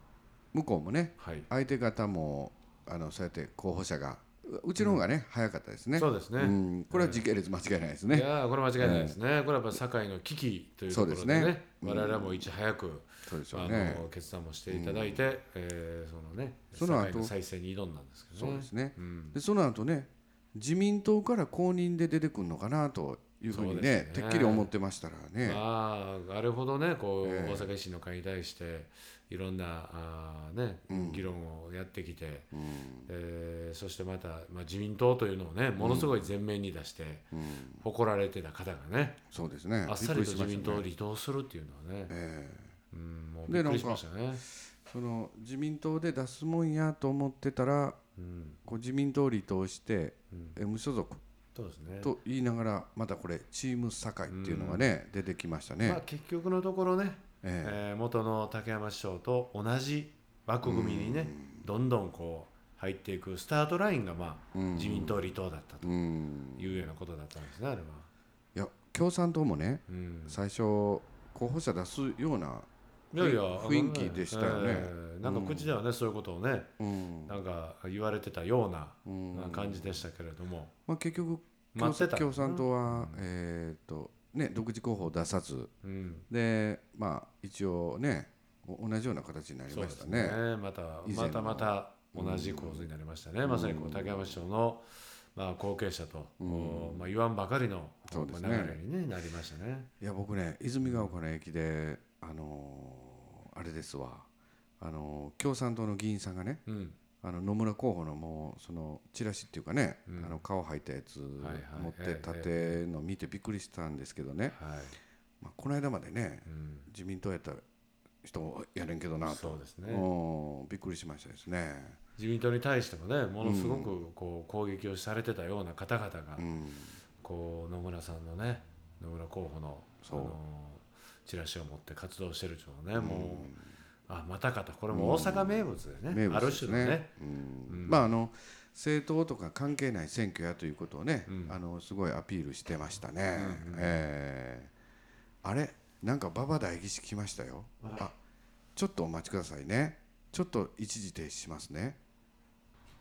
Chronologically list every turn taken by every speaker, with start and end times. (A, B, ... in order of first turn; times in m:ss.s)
0:00.5-0:09.2 A
0:01.2-0:01.5 B
0:04.8-0:05.0 B
0:06.0-0:07.2 B
0:08.1-0:19.4 B
0:10.9-0:12.5 A
0:13.2-0:14.1 A
0:14.7-0:15.3 A
0:16.7-0:17.3 A
0:18.4-0:25.6 A
0:23.5-0:24.7 B
0:25.4-0:32.5 B
0:27.2-0:27.7 A
0:30.9-0:31.3 A
0:32.5-0:33.1 A
0:33.1-0:39.2 B
0:35.8-0:36.2 A
0:37.3-0:37.8 A
0:39.3-0:40.8 A
0:39.8-0:42.1 B
0:42.1-0:42.7 A
0:42.9-0:44.4 B
0:43.5-0:44.0 A
0:44.6-0:48.0 A
0:48.2-0:48.6 B
0:48.6-0:51.2 A
0:50.3-0:50.6 B
0:51.5-0:52.1 B
0:52.0-0:56.0 A
0:54.3-0:54.8 B
0:55.8-1:05.9 B
0:57.4-0:57.8 A
1:00.6-1:01.7 A
1:04.5-1:05.2 A
1:05.8-1:06.9 A
1:06.6-1:08.1 B
1:08.5-1:15.8 A
1:09.9-1:10.4 B
1:13.1-1:16.7 B
1:16.8-1:17.4 A
1:17.2-1:20.7 B
1:19.0-1:20.0 A
1:20.9-1:25.7 A
1:21.7-1:23.3 B
1:25.8-1:26.3 B
1:26.3-1:30.4 A
1:29.7-1:39.9 B
1:31.0-1:32.9 A
1:33.4-1:34.4 A
1:36.4-1:37.1 A
1:38.1-1:38.8 A
1:40.0-1:44.3 A
1:40.8-1:41.2 B
1:44.8-1:46.6 A
1:46.6-1:47.0 B
1:47.2-1:54.6 A
1:50.0-1:50.4 B
1:51.4-1:52.8 B
1:54.5-1:55.0 B
1:55.4-1:57.6 A
1:56.4-1:56.9 B
1:58.2-2:02.0 A
1:59.2-2:00.1 B
2:02.2-2:06.4 B
2:03.4-2:03.9 A
2:06.4-2:07.0 A
2:07.2-2:13.5 B
2:10.0-2:10.4 A
2:12.9-2:13.7 A
2:14.1-2:17.1 B
2:14.9-2:24.7 A
2:17.7-2:18.1 B
2:21.3-2:21.6 B
2:23.3-2:24.0 B
2:25.4-2:28.1 A
2:27.8-2:28.1 B
2:28.8-2:32.0 A